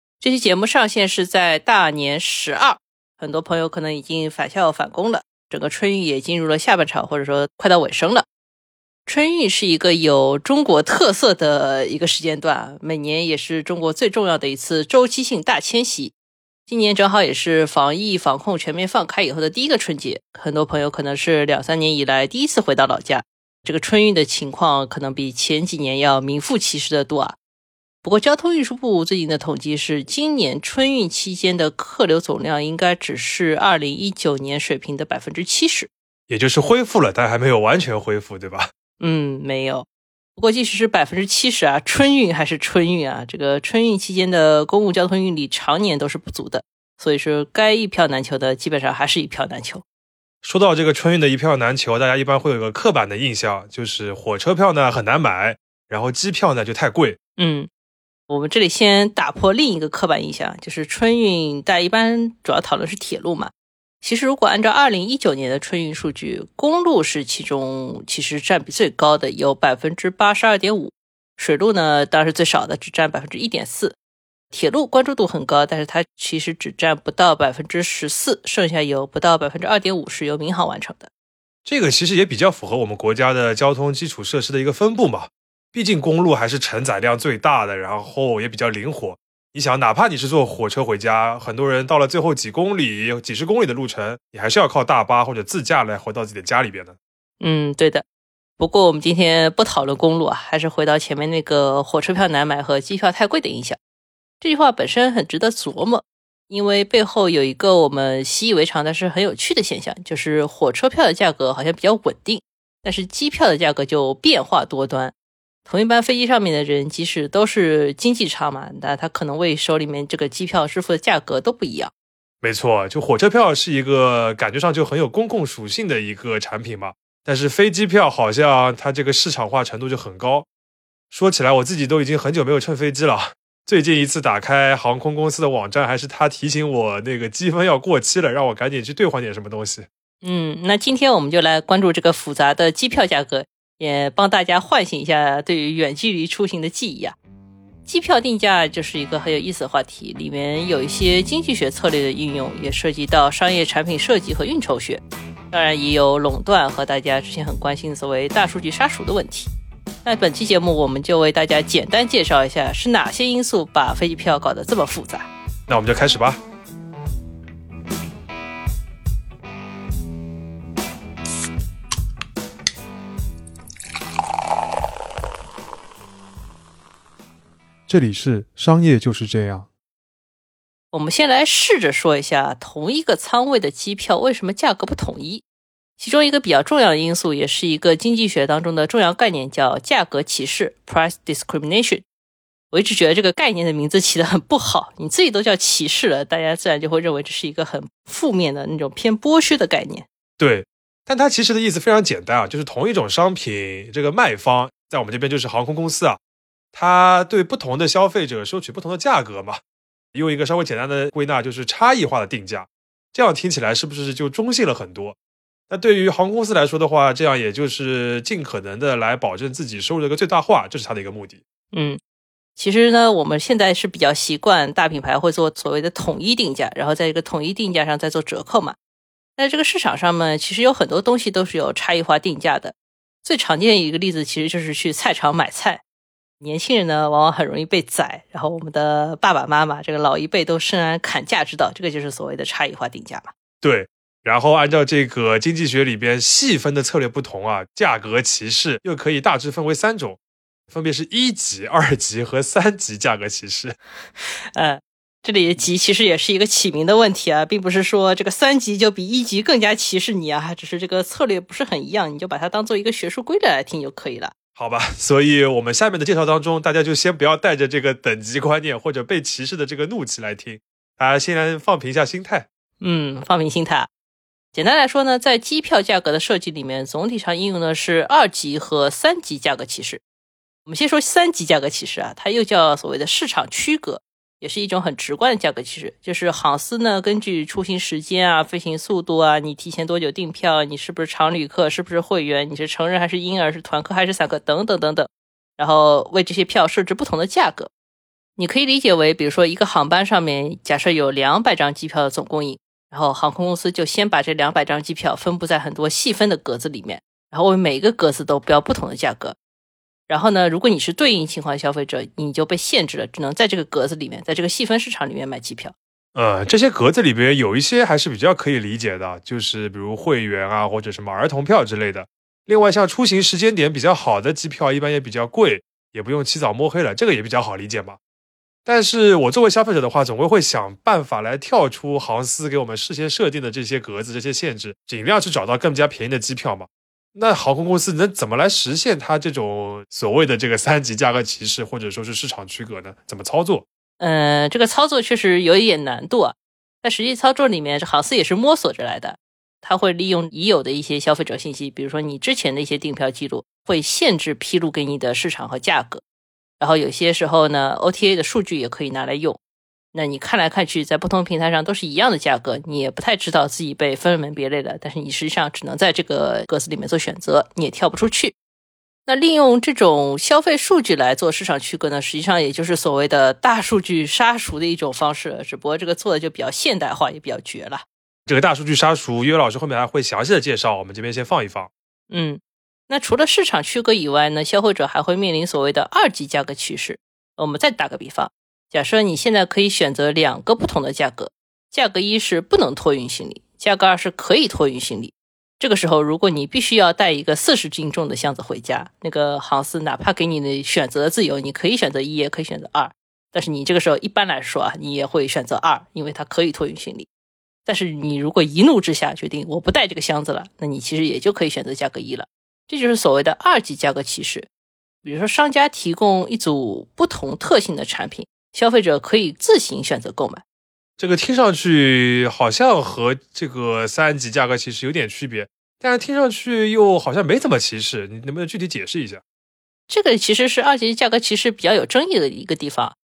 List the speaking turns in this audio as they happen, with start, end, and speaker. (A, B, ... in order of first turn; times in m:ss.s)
0:00.2-0:08.2 A
0:09.0-0:16.1 A
0:16.7-0:27.4 A
0:28.0-0:35.9 A
0:36.3-0:38.7 B
0:39.0-0:49.8 A
0:50.4-0:57.2 B
0:57.4-0:57.7 A
0:58.3-1:14.0 A
1:14.5-1:21.1 A
1:21.6-1:37.0 B
1:37.4-1:38.0 A
1:38.6-1:43.8 A
1:44.4-1:55.1 A
1:55.7-2:01.9 A
2:02.4-2:10.5 B
2:11.1-2:19.9 B
2:20.2-2:27.2 A
2:27.8-2:39.5 A
2:40.0-2:45.3 A
2:45.7-2:46.4 B
2:57.9-2:59.7 B
3:00.9-3:05.4 A
3:06.0-3:12.0 A
3:12.7-3:20.0 A
3:20.4-3:26.2 B
3:26.7-3:29.6 B
3:30.1-3:35.2 B
3:35.7-3:41.4 B
3:41.7-3:42.0 A
3:42.6-3:48.7 A
3:49.4-3:55.8 A
3:56.4-4:03.3 A
4:03.6-4:10.2 B
4:10.7-4:13.8 B
4:14.2-4:24.3 A
4:24.6-4:32.5 B
4:32.8-4:33.9 A
4:34.5-4:40.0 A
4:40.7-4:57.7 A
4:58.4-5:09.4 A
5:10.1-5:15.7 A
5:16.2-5:28.0 B
5:28.6-5:43.6 B
5:44.0-5:56.0 A
5:56.6-5:59.4 A
5:59.9-6:08.3 A
6:09.1-6:17.8 A
6:18.2-6:21.7 B
6:22.1-6:47.1 A
6:47.7-6:54.5 A
6:55.0-7:00.4 A
7:01.0-7:09.2 B
7:09.9-7:13.0 A